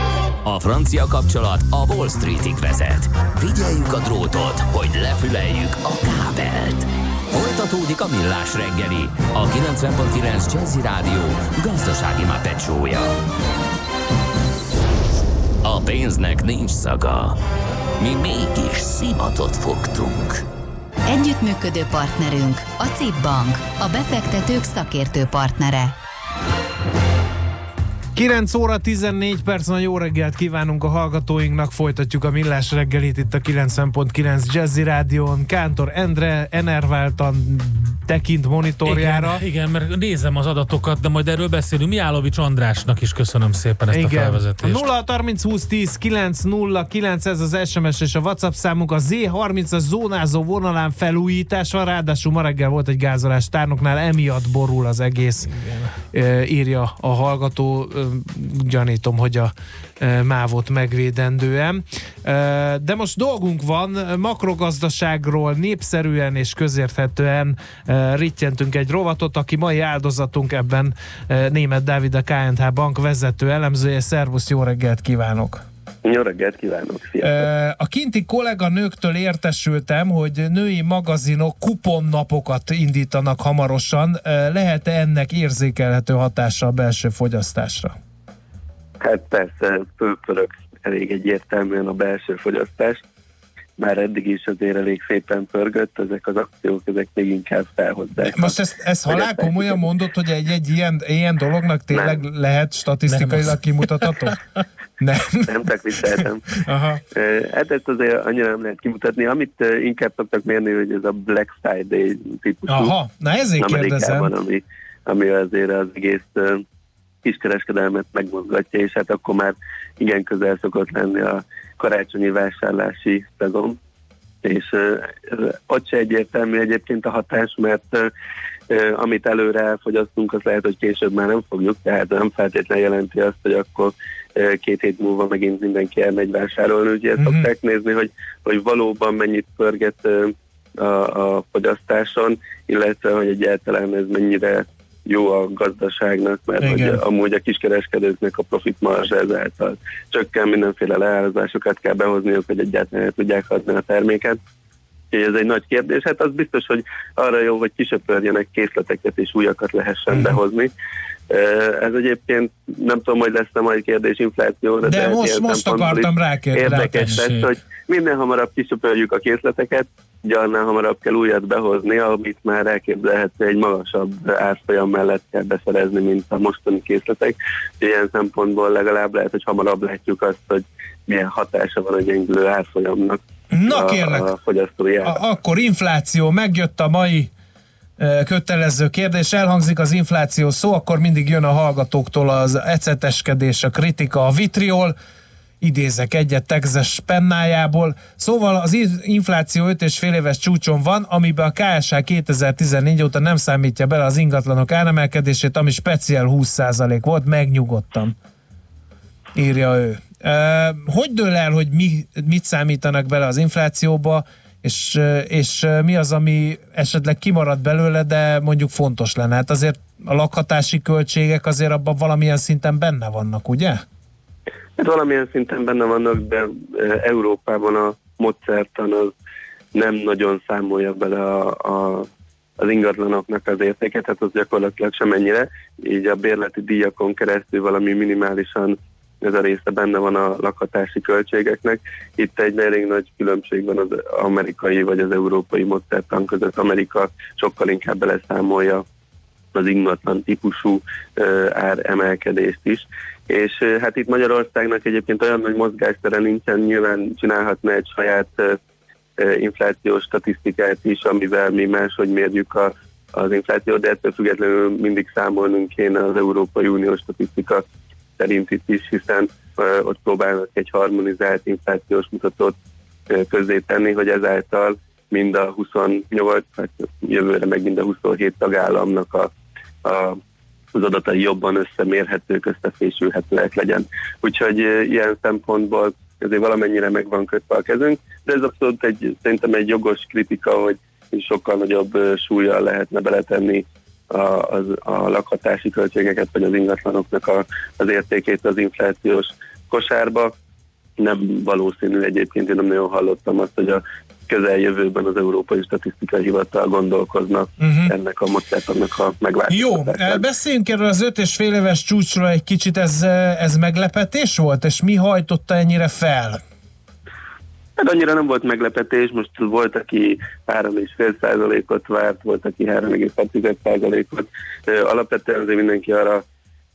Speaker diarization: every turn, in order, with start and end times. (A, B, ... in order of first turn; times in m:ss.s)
0:00.4-0:13.1 A
0:15.6-0:17.4 A
0:18.0-0:20.4 A
0:21.0-0:25.9 B
0:28.1-0:39.4 C
0:38.8-0:44.8 D
0:43.9-1:15.6 C
1:16.0-1:17.4 E
1:17.2-1:27.9 C
1:29.0-1:33.0 E
1:33.8-1:38.6 E
1:38.2-1:44.3 C
1:39.1-1:39.8 E
1:41.9-1:42.2 E
1:43.1-1:44.1 D
1:45.0-1:45.5 C
1:45.5-1:46.6 E
1:46.6-1:47.0 C
1:47.1-1:52.9 E
1:52.7-1:54.3 C
1:53.6-1:56.6 E
1:57.2-2:03.8 E
2:04.4-2:08.1 E
2:08.7-2:34.4 E
2:17.2-2:17.5 C
2:26.6-2:27.0 C
2:35.1-2:40.7 E
2:40.1-2:40.4 C
2:41.3-3:05.2 E
2:44.8-2:47.1 C
2:46.8-2:47.5 D
3:03.5-3:04.3 C
3:05.0-3:07.3 C
3:08.0-3:15.0 C
3:15.6-3:28.1 C
3:29.3-3:43.8 C
3:44.8-3:49.1 E
3:49.7-3:52.1 E
3:52.6-4:08.8 E
4:09.5-4:18.6 E
4:19.2-4:27.6 E
4:28.2-4:32.5 E
4:33.1-4:39.3 E
4:39.8-4:40.2 E
4:40.7-5:00.3 E
5:01.0-5:10.2 E
5:07.6-5:07.9 C
5:09.5-5:16.4 C
5:17.8-5:26.2 E